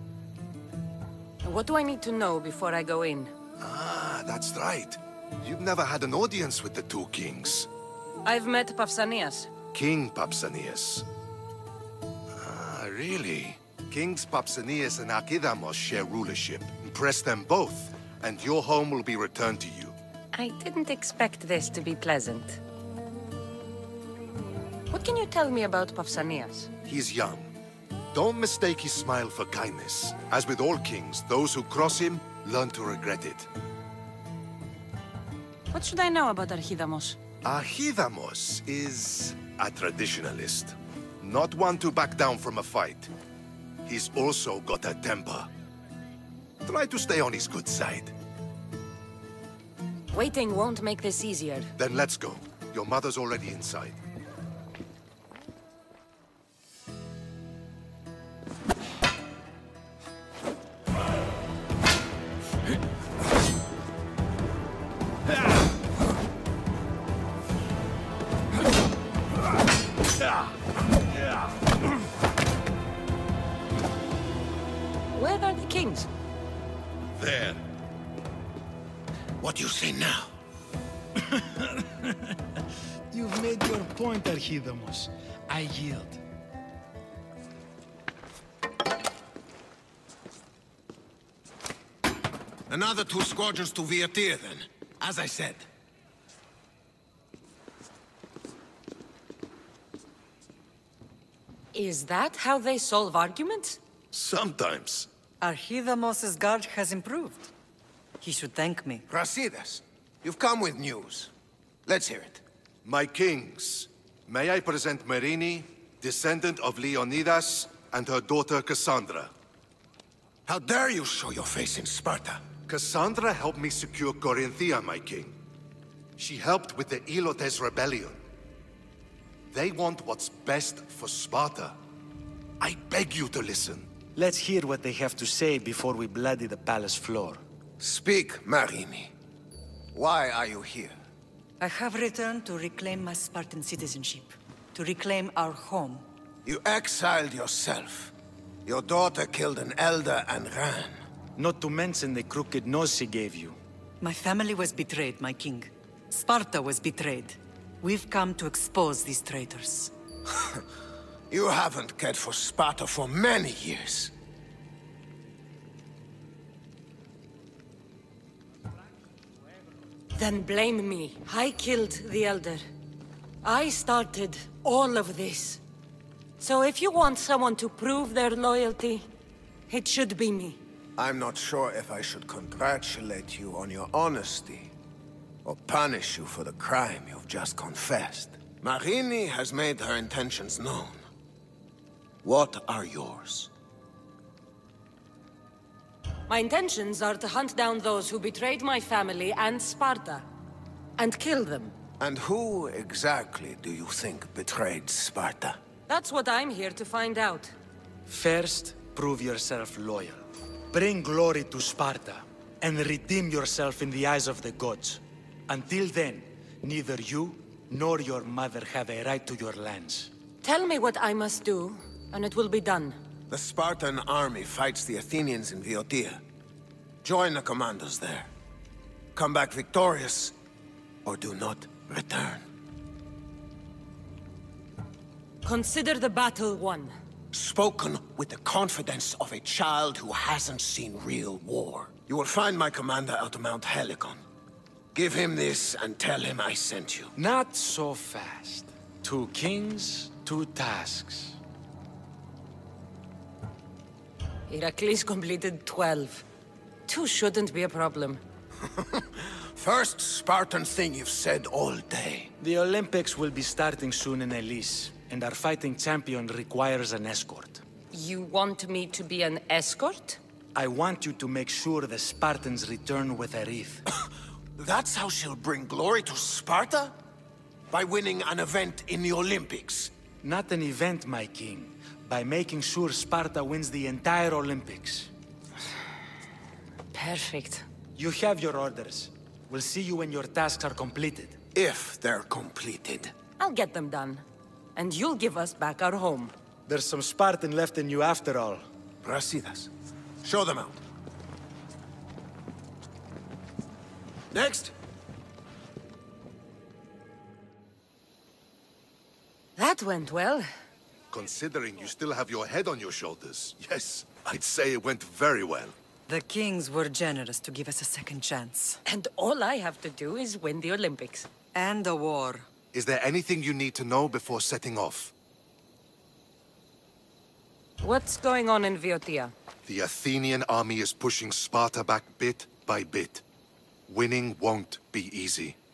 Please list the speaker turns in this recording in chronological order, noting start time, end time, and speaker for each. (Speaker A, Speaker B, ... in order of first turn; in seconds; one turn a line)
Speaker A: 1.4-3.3
Speaker B: 3.6-7.7
Speaker A: 8.2-9.5
Speaker B: 9.7-11.1
Speaker B: 12.3-19.9
Speaker A: 20.3-22.6
Speaker A: 24.9-26.7
Speaker B: 26.9-27.5
Speaker B: 28.1-33.5
Speaker A: 35.7-37.2
Speaker B: 37.4-43.1
Speaker B: 43.9-45.5
Speaker B: 46.6-48.1
Speaker A: 50.1-51.7
Speaker B: 51.8-54.0
Speaker A: 75.1-76.1
Speaker B: 77.1-77.6
Speaker C: 79.4-80.3
Speaker D: 81.2-82.3
Speaker D: 83.1-86.2
Speaker C: 92.7-95.7
Speaker A: 101.7-103.8
Speaker B: 104.1-105.1
Speaker E: 105.4-107.5
Speaker E: 108.2-109.0
Speaker C: 109.1-111.3
Speaker C: 111.8-112.4
Speaker B: 112.8-119.3
Speaker C: 120.5-122.4
Speaker B: 122.7-125.3
Speaker B: 126.2-128.2
Speaker B: 129.5-131.8
Speaker B: 132.6-133.9
Speaker D: 134.2-137.4
Speaker C: 137.8-139.1
Speaker C: 139.9-140.9
Speaker E: 141.6-146.1
Speaker C: 146.4-148.1
Speaker C: 148.7-151.0
Speaker D: 151.4-153.6
Speaker E: 154.0-159.9
Speaker C: 161.3-164.1
Speaker A: 170.2-172.6
Speaker A: 173.4-175.6
Speaker A: 176.4-179.1
Speaker A: 179.7-180.6
Speaker C: 181.0-184.7
Speaker C: 185.4-191.1
Speaker C: 192.2-193.5
Speaker A: 196.3-200.2
Speaker A: 201.0-201.7
Speaker C: 202.0-205.6
Speaker A: 205.9-207.6
Speaker D: 208.1-220.1
Speaker A: 220.4-223.0
Speaker C: 223.3-226.2
Speaker C: 227.0-228.3
Speaker C: 229.2-230.3
Speaker C: 231.0-232.5
Speaker A: 235.4-236.9
Speaker C: 237.3-244.2
Speaker C: 244.9-247.1
Speaker D: 247.2-251.4
Speaker A: 254.5-256.2
Speaker A: 256.9-258.2
Speaker C: 258.8-262.3
Speaker D: 262.4-267.6
Speaker A: 267.9-270.2
Speaker D: 270.5-273.8
Speaker C: 274.6-276.9
Speaker C: 277.7-279.9
Speaker D: 280.2-285.1
Speaker A: 286.9-287.6
Speaker D: 287.9-291.4
Speaker C: 291.5-293.1
Speaker A: 293.4-294.2
Speaker A: 294.8-296.3
Speaker D: 296.7-298.6
Speaker C: 299.0-299.7
Speaker C: 300.2-300.8
Speaker C: 304.3-304.7
Speaker A: 309.6-310.5
Speaker B: 311.1-315.8
Speaker E: 316.1-318.8
Speaker A: 318.9-321.3
Speaker E: 321.5-322.5
Speaker B: 322.7-325.1
Speaker A: 327.8-329.3
Speaker B: 329.6-333.2
Speaker B: 333.9-335.6